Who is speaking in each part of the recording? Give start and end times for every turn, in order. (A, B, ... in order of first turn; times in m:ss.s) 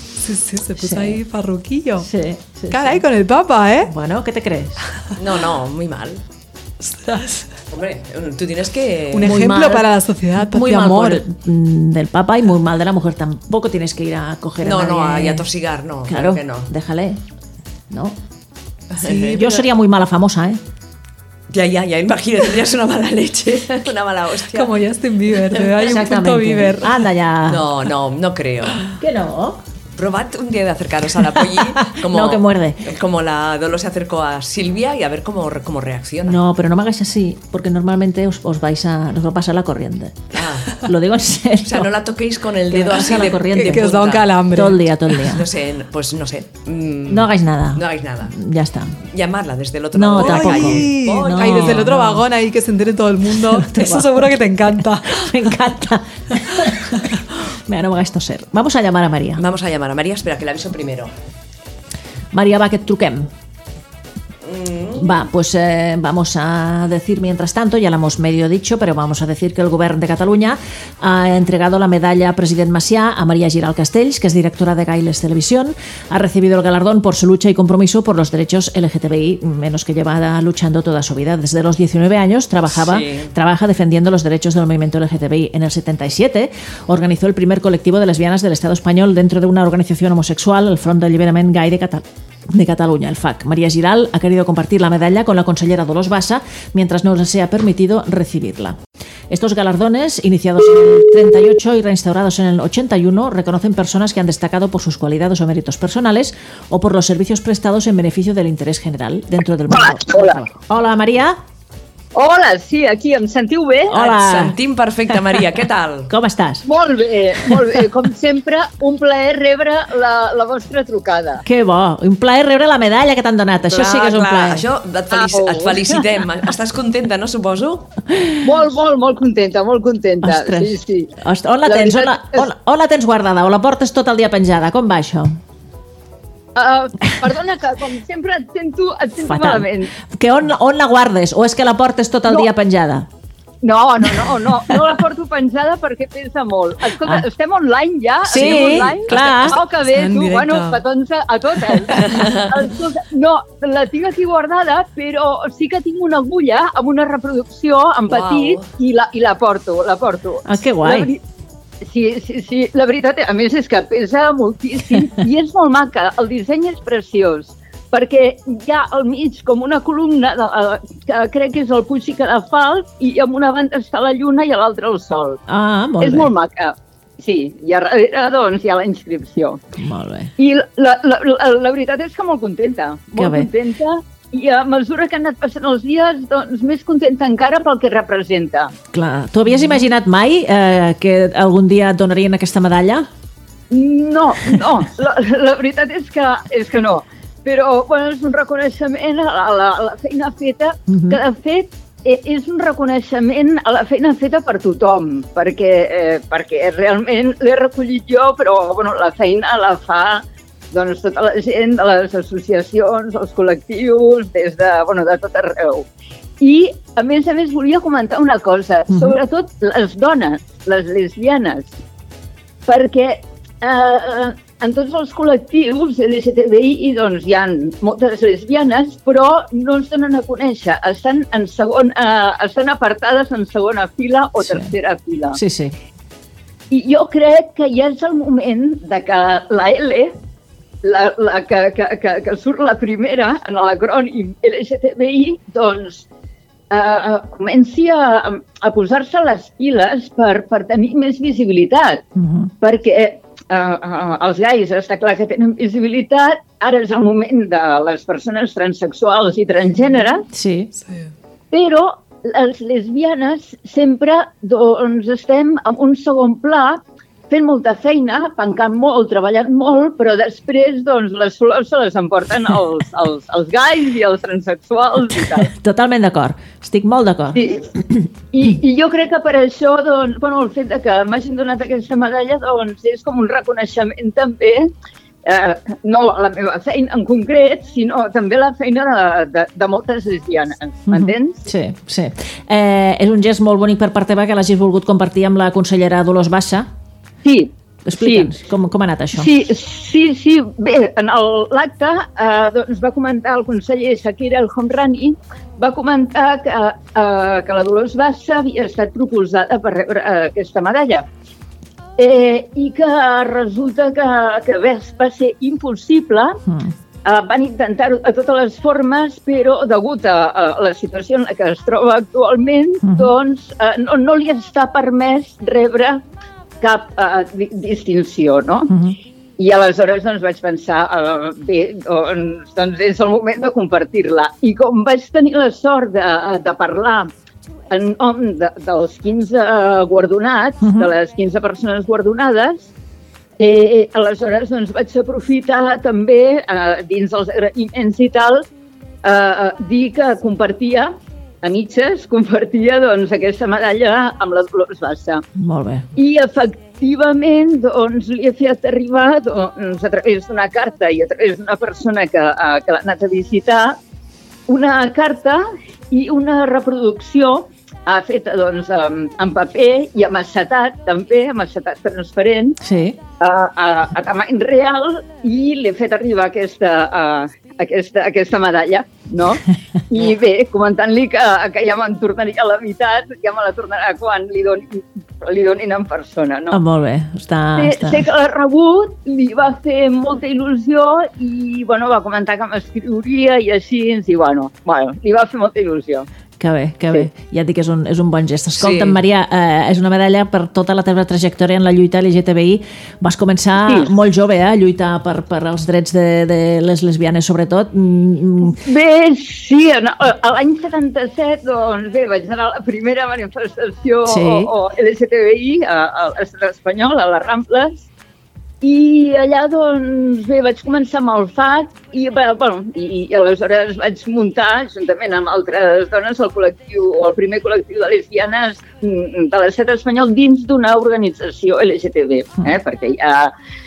0:00.2-0:02.1 A
0:00.8-0:01.2 B
0:02.0-0:03.0 B
0:02.7-0:03.9 A
0:03.8-0:04.8 B
0:05.2-0:06.2 C
0:06.8-0:07.5 A
0:07.7-0:09.4 C
0:09.1-0:11.2 A
0:09.2-0:15.5 B
0:14.6-0:16.7 C
0:16.1-0:17.2 B
0:17.9-0:18.2 B
0:19.0-0:19.4 C
0:19.0-0:19.6 A
0:19.1-0:20.6 B
0:21.5-0:24.7 C
0:24.5-0:27.0 A
0:25.7-0:27.7 B
0:27.5-0:28.9 C
0:29.0-0:29.6 B
0:30.0-0:36.4 C
0:31.4-0:32.9 B
0:36.2-0:41.9 B
0:40.3-0:40.8 C
0:41.6-0:44.6 C
0:42.7-0:45.5 B
0:43.5-0:44.9 A
0:45.2-0:48.4 C
0:47.1-0:49.0 B
0:49.1-0:51.8 C
0:49.9-0:52.2 B
0:50.2-0:55.3 A
0:53.5-0:54.3 B
0:54.8-0:59.4 B
0:59.4-1:01.1 C
1:02.3-1:03.3 B
1:04.4-1:05.2 C
1:05.0-1:38.8 B
1:22.7-1:23.3 C
1:39.3-1:51.4 B
1:49.7-1:50.4 D
1:52.2-1:54.0 D
1:53.9-1:54.6 B
1:53.9-1:56.1 C
1:55.1-1:55.4 B
1:56.1-1:56.6 B
1:56.6-2:01.4 D
2:01.4-2:04.7 B
2:03.7-2:07.9 C
2:05.1-2:06.0 D
2:08.4-2:11.1 D
2:10.2-2:15.4 B
2:11.7-2:12.5 D
2:16.6-2:19.9 D
2:19.2-2:23.1 B
2:23.6-2:41.2 D
2:24.2-2:24.8 B
2:27.0-2:27.3 B
2:28.3-2:29.6 B
2:28.3-2:29.6 C
2:29.8-2:30.8 A
2:32.0-2:32.5 C
2:38.1-2:38.7 C
2:40.4-2:41.1 B
2:41.8-2:55.4 D
2:55.5-2:56.3 B
2:56.0-2:59.6 D
2:59.8-3:00.3 B
3:00.4-3:08.7 D
3:03.2-3:03.5 B
3:08.9-3:13.1 B
3:13.7-3:35.9 D
3:20.9-3:21.2 B
3:36.4-3:41.8 D
3:38.9-3:39.2 B
3:42.7-3:55.4 D
3:54.4-3:54.7 B
3:55.3-3:55.8 B
3:56.7-4:00.1 D
4:00.8-4:06.0 D
4:06.7-4:12.0 D
4:12.2-4:12.5 B
4:12.6-4:20.3 D
4:20.3-4:20.7 B
4:20.7-4:21.1 A
4:21.5-4:35.5 D
4:35.3-4:37.4 B
4:37.3-4:37.7 D
4:38.3-4:44.7 D
4:45.2-4:51.5 D
4:50.9-4:56.7 B
4:57.2-4:58.3 D
4:57.9-4:59.3 B
4:59.2-5:11.1 D
5:12.0-5:16.4 D
5:16.5-5:16.7 B
5:17.0-5:26.0 D
5:22.8-5:23.1 B
5:26.6-5:28.7 D
5:28.7-5:29.0 B
5:29.4-5:37.1 D
5:37.7-5:42.7 D
5:40.6-5:40.9 B
5:43.4-5:48.5 D
5:49.0-5:55.2 D
5:55.4-5:55.9 B
5:56.0-6:03.8 D
6:04.5-6:12.6 D
6:12.6-6:13.0 B
6:13.2-6:26.6 D
6:26.5-6:28.1 B
6:27.6-6:36.1 D
6:36.4-6:48.6 B
6:38.6-6:39.0 C
6:43.6-6:43.9 D
6:48.6-6:57.9 D
6:54.0-6:54.5 B
6:58.6-7:13.3 D